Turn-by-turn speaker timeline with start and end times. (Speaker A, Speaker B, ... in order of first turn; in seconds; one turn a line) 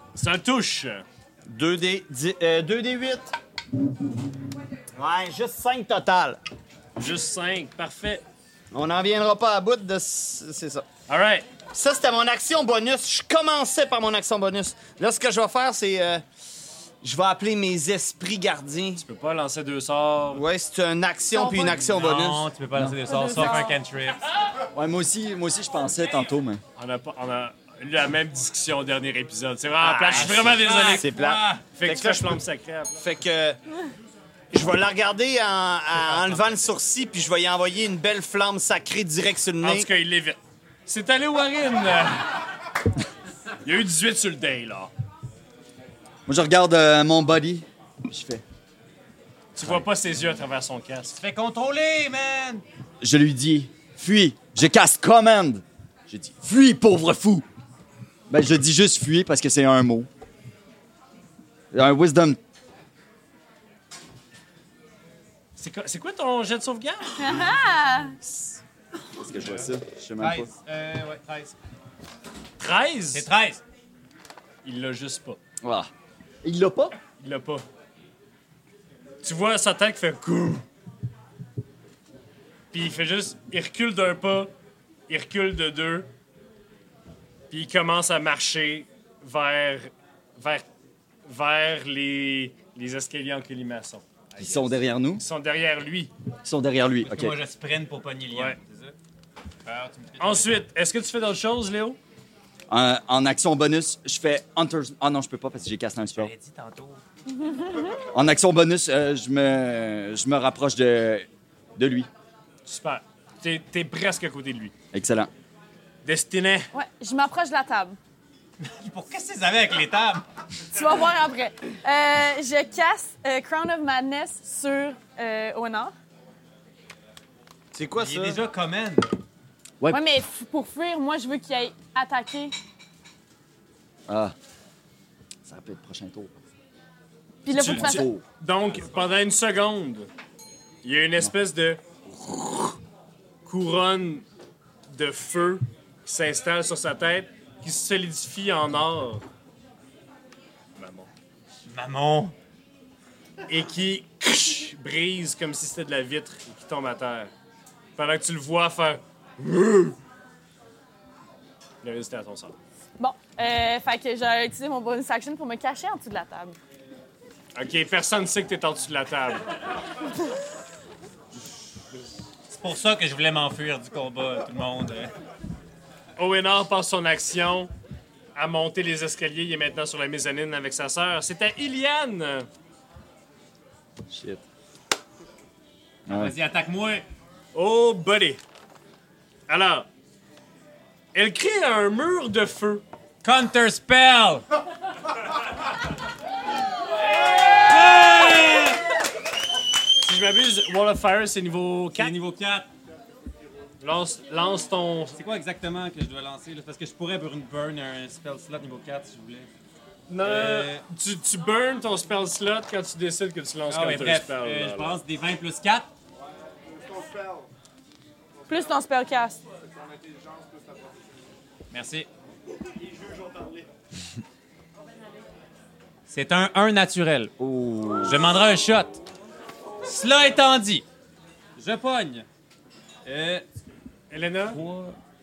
Speaker A: 0.1-1.1
Speaker B: 1.5-3.4
Speaker B: 5.0-6.4
Speaker A: 7.0-8.2
Speaker B: 8.7-10.9
Speaker A: 11.1-11.5
Speaker B: 11.7-16.2
Speaker B: 17.0-19.0
Speaker A: 19.0-20.4
Speaker B: 20.3-22.4
Speaker C: 21.4-21.7
Speaker D: 21.8-24.3
Speaker C: 23.1-23.7
Speaker E: 24.7-26.6
Speaker A: 26.8-31.1
Speaker B: 29.8-32.4
Speaker D: 30.1-31.6
Speaker A: 31.7-33.0
Speaker B: 33.0-33.6
Speaker B: 34.5-39.9
Speaker A: 39.6-42.3
Speaker A: 43.6-44.9
Speaker E: 46.3-48.4
Speaker A: 49.5-51.2
Speaker E: 49.6-49.9
Speaker D: 51.1-52.6
Speaker E: 53.0-57.5
Speaker E: 58.3-60.1
Speaker E: 61.7-62.4
Speaker A: 65.6-67.2
Speaker C: 67.2-68.2
Speaker E: 68.2-68.6
Speaker E: 69.2-70.5
Speaker D: 69.4-71.5
Speaker A: 72.6-73.3
Speaker D: 73.1-73.6
Speaker A: 74.6-75.4
Speaker E: 75.6-75.9
Speaker E: 76.4-77.0
Speaker A: 77.2-77.6
Speaker A: 79.2-80.7
Speaker A: 82.7-84.5
Speaker A: 85.1-86.1
Speaker A: 87.5-90.7
Speaker A: 91.3-96.1
Speaker E: 94.4-95.2
Speaker E: 96.4-97.3
Speaker D: 97.0-99.0
Speaker A: 98.3-98.6
Speaker D: 99.7-100.6
Speaker A: 100.2-102.0
Speaker E: 102.7-106.3
Speaker D: 106.2-107.0
Speaker C: 107.3-108.0
Speaker E: 108.1-112.1
Speaker A: 112.7-114.7
Speaker E: 114.9-115.3
Speaker A: 116.0-116.7
Speaker C: 116.7-118.0
Speaker D: 118.6-120.2
Speaker C: 120.7-125.9
Speaker B: 127.7-128.4
Speaker D: 128.0-129.1
Speaker C: 129.9-132.6
Speaker E: 134.1-134.3
Speaker E: 135.4-136.4
Speaker C: 137.4-138.1
Speaker E: 137.5-138.2
Speaker A: 137.5-140.1
Speaker A: 140.8-142.8
Speaker A: 143.5-144.2
Speaker A: 144.9-149.2
Speaker A: 150.8-151.1
Speaker D: 151.7-152.3
Speaker A: 153.5-157.3
Speaker A: 158.0-160.0
Speaker A: 161.8-162.6
Speaker C: 163.0-166.6
Speaker A: 167.6-169.5
Speaker D: 172.5-175.1
Speaker A: 176.2-177.7
Speaker A: 178.3-182.5
Speaker E: 184.1-184.4
Speaker E: 186.1-186.3
Speaker D: 186.1-187.1
Speaker A: 187.5-188.4
Speaker A: 189.5-189.9
Speaker A: 191.1-192.8
Speaker D: 193.2-194.4
Speaker D: 197.5-198.8
Speaker A: 200.0-202.1
Speaker D: 202.0-202.7
Speaker A: 203.8-205.2
Speaker D: 205.2-209.5
Speaker A: 210.1-214.9
Speaker D: 210.2-210.8
Speaker D: 213.7-215.9
Speaker C: 218.5-219.4
Speaker D: 221.7-222.1
Speaker D: 226.1-227.3
Speaker E: 227.4-228.2
Speaker D: 228.0-229.0
Speaker D: 229.8-230.8
Speaker D: 231.6-232.3
Speaker D: 233.1-233.4
Speaker A: 234.1-234.6
Speaker D: 234.5-235.0